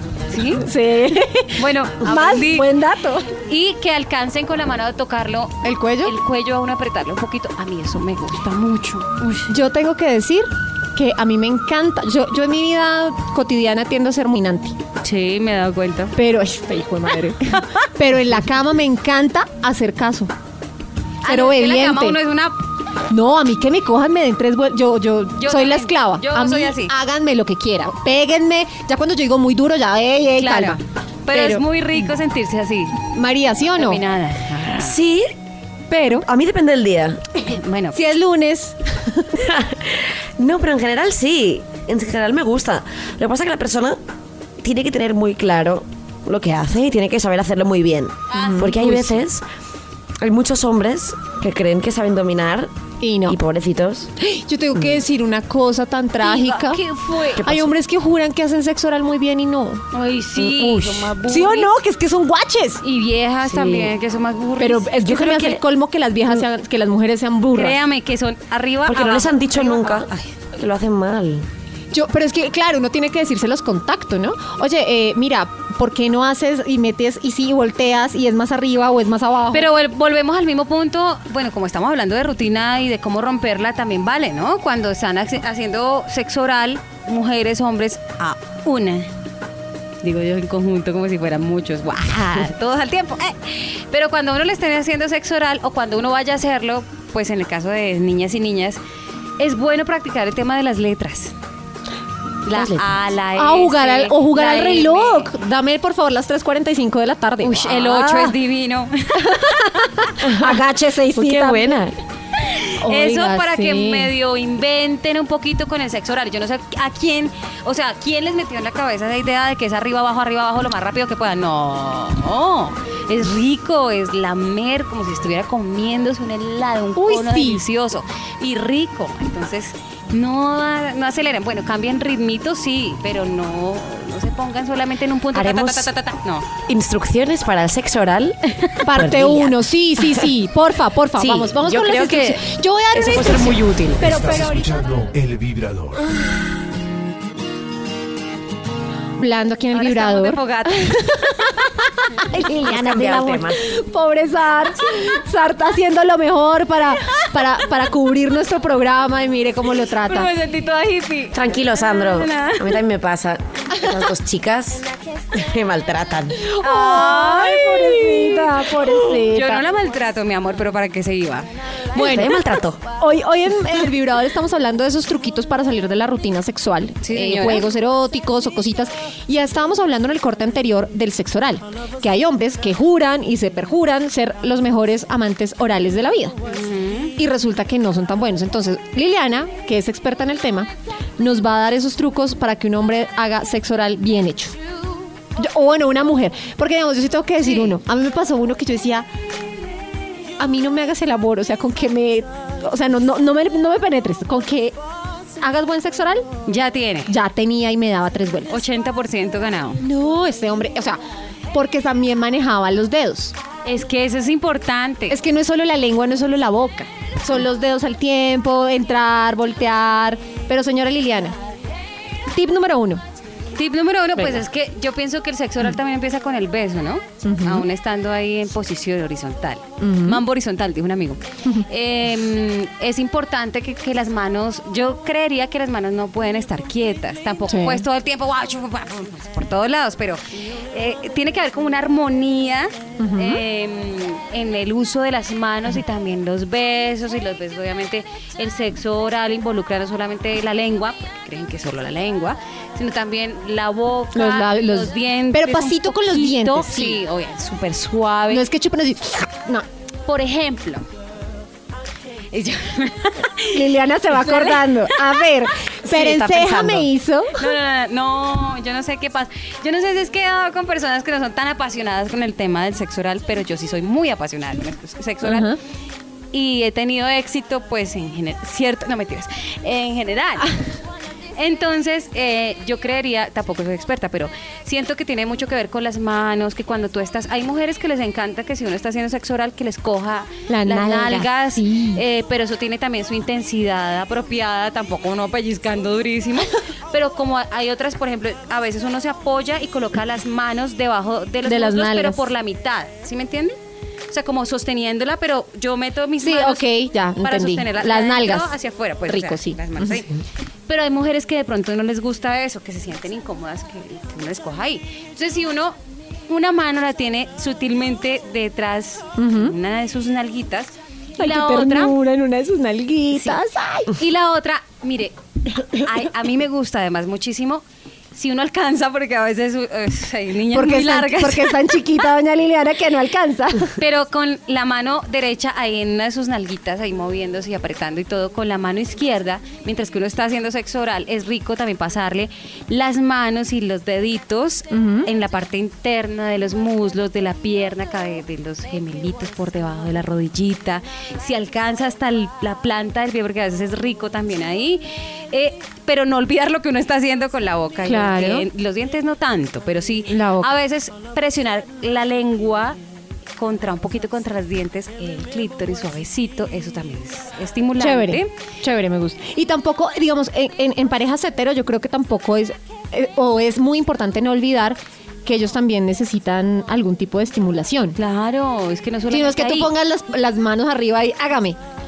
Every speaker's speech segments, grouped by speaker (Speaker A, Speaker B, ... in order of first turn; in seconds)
Speaker A: 0.3-0.6, 1.6-2.7, 3.4-9.5, 15.0-16.1, 21.2-22.6, 25.4-26.9, 30.4-33.0, 33.8-35.0, 37.4-38.0, 48.3-48.7, 56.2-57.4, 59.9-61.7, 62.8-65.0, 67.5-70.3, 79.5-89.1, 90.0-98.8, 99.4-101.3, 102.5-105.3, 107.4-109.5, 112.4-136.5, 149.7-151.0, 160.1-162.8, 166.6-171.5, 177.0-177.7, 186.5-187.1, 197.4-197.8, 206.5-207.1, 208.5-209.8, 213.7-215.2, 223.6-258.5, 260.1-260.9, 262.3-265.2, 267.4-275.5, 276.3-280.5, 281.4-303.6, 304.1-306.6, 307.2-310.1, 310.7-315.8, 316.3-321.9, 323.1-327.6, 328.1-331.8, 333.8-362.8, 363.4-368.3, 378.0-379.7
Speaker B: 0.6-3.3, 5.6-6.2, 9.5-14.8, 16.2-20.3, 21.3-22.2, 23.1-30.8, 31.3-31.6, 33.1-34.0, 35.9-36.2, 37.9-39.3, 48.3-49.2, 53.0-53.4, 54.2-56.8, 57.4-59.8, 60.4-62.8, 64.6-67.8, 71.9-79.7, 103.4-108.4, 109.2-111.8, 112.8-114.1, 127.0-127.6, 138.8-144.7, 149.2-160.3, 166.4-169.6, 172.0-172.3, 173.0-186.4, 187.2-194.6, 195.4-199.1, 200.4-204.8, 205.4-206.3, 207.1-208.6, 209.8-211.0, 211.5-213.3, 215.1-221.4, 222.3-223.0, 227.2-227.7, 229.8-230.2, 237.5-237.8, 243.0-243.4, 254.1-257.0, 258.3-259.6, 263.5-267.4, 275.2-275.6, 290.5-292.0, 301.4-302.2, 306.2-308.5, 309.1-309.9, 319.2-319.5, 321.2-323.9, 330.5-333.8, 344.7-345.1, 357.9-358.5, 360.1-360.5, 367.8-378.0, 379.1-381.6
Speaker C: 34.7-35.3, 36.2-37.2, 39.4-44.0, 44.6-49.4, 50.2-52.7, 53.3-54.1, 57.4-57.7, 63.5-63.9, 65.0-65.6, 68.9-71.5, 102.5-102.8, 110.2-112.0, 135.3-135.9, 136.7-140.3, 141.2-144.2, 152.6-153.7, 161.3-166.4, 172.0-172.8, 265.8-266.9
Speaker D: 144.0-146.1